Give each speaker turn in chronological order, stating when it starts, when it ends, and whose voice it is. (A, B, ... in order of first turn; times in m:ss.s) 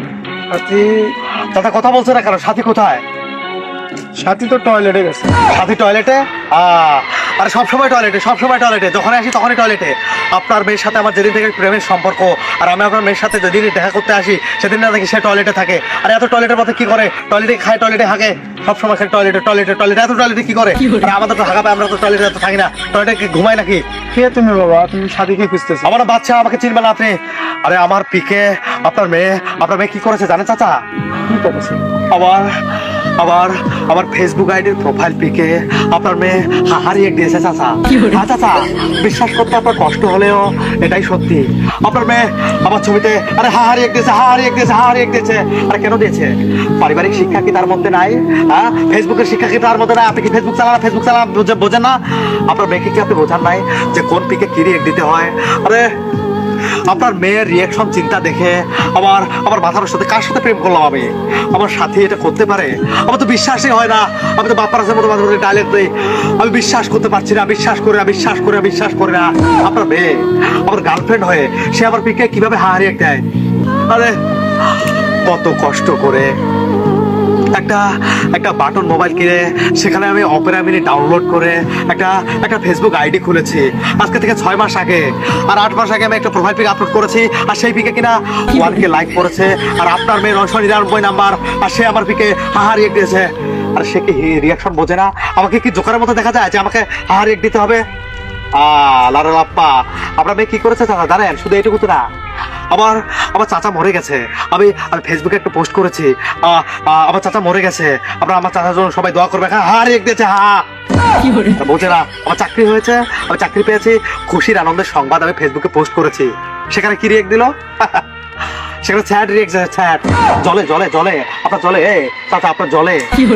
0:00.5-0:01.1 A
0:01.5-0:03.0 B
0:04.2-0:05.4 A
0:05.5-0:23.8 B
0:24.1-0:25.9 A
0:25.8-0:30.8 B
0:31.3-0:31.8 A
0:32.1-0:32.5 B
0:33.2-0:55.9 B
0:56.9-1:13.2 B
1:13.9-1:14.2 B
1:15.3-1:16.3 B
1:17.5-1:37.8 B
1:38.6-1:42.0 B
1:42.7-1:50.6 B
1:51.6-1:58.0 B
1:58.8-2:03.1 B